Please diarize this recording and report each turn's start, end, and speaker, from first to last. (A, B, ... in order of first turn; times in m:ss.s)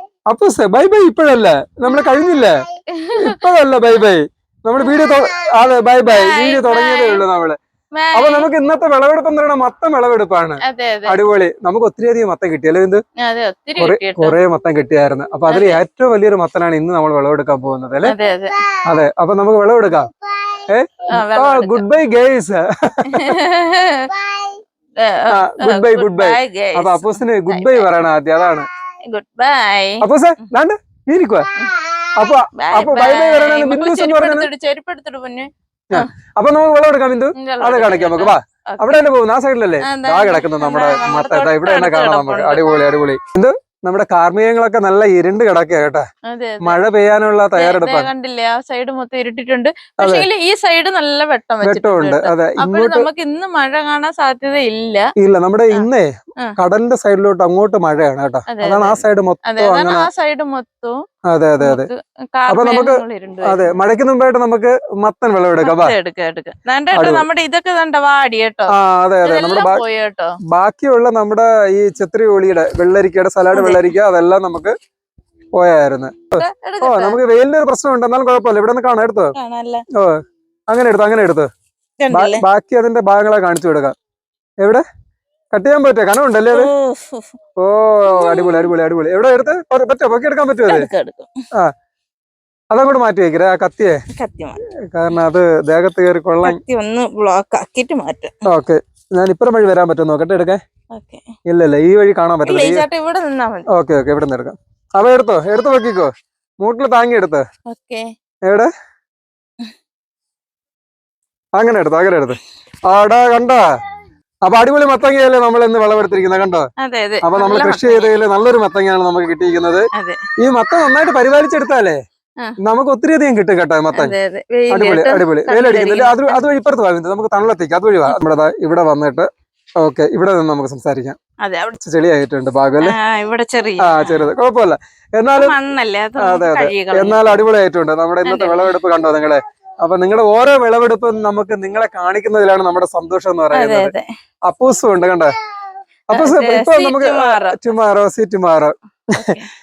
0:00.3-0:02.6 A
0:02.9-0:04.0 B
0:03.2-0:07.6 A
0:04.8-0:05.1 B
0:06.0-0:07.2 B
0:08.0-0:08.5 B
0:08.1-0:13.0 A
0:10.6-0:11.2 B
0:13.2-0:14.4 B
0:13.8-0:18.1 A
0:15.5-0:15.8 B
0:18.0-0:18.6 B
0:18.8-0:20.1 A
0:20.7-0:23.4 A
0:21.1-0:21.8 B
0:23.1-0:27.8 B
0:25.3-0:28.7 A
0:29.1-0:30.4 B
0:30.0-0:31.5 A
0:32.2-0:34.5 A
0:32.6-0:36.1 B
0:35.9-0:46.0 A
0:37.4-0:39.1 B
0:39.8-0:42.8 B
0:46.3-0:46.8 B
0:46.6-0:48.1 A
0:47.6-0:55.1 B
0:50.0-0:50.3 A
0:51.6-0:53.1 A
0:55.2-1:00.1 A
0:58.5-1:01.0 B
1:01.3-1:01.9 A
1:01.6-1:03.8 B
1:02.5-1:06.0 A
1:05.6-1:08.7 B
1:06.9-1:07.2 A
1:08.7-1:09.8 A
1:09.2-1:10.4 B
1:10.5-1:14.7 A
1:13.5-1:13.9 B
1:15.6-1:19.3 A
1:16.4-1:17.2 B
1:19.4-1:19.8 B
1:20.7-1:21.5 A
1:22.0-1:22.4 B
1:22.1-1:23.9 A
1:25.5-1:26.7 A
1:26.5-1:27.3 B
1:27.6-1:30.9 A
1:28.1-1:28.7 B
1:30.7-1:31.3 B
1:32.7-1:33.9 A
1:34.1-1:34.6 B
1:34.9-1:36.6 A
1:36.4-1:38.4 B
1:38.4-1:40.6 A
1:40.9-1:41.2 B
1:41.5-1:42.8 A
1:42.4-1:43.7 B
1:43.7-1:46.1 A
1:46.6-1:47.4 A
1:47.7-1:48.0 B
1:51.6-1:53.6 A
1:54.4-1:56.6 A
1:56.8-1:58.1 B
1:57.2-1:59.9 A
1:59.9-2:00.2 B
2:00.4-2:02.0 A
2:02.6-2:04.1 A
2:03.9-2:06.4 B
2:04.7-2:09.2 A
2:09.8-2:11.2 A
2:11.4-2:11.8 B
2:11.8-2:13.0 A
2:12.8-2:14.3 B
2:13.8-2:15.5 A
2:15.3-2:17.4 B
2:16.2-2:23.9 A
2:18.2-2:18.7 B
2:23.5-2:24.0 B
2:24.5-2:25.3 A
2:26.1-2:28.7 A
2:26.1-2:27.6 B
2:29.1-2:29.5 B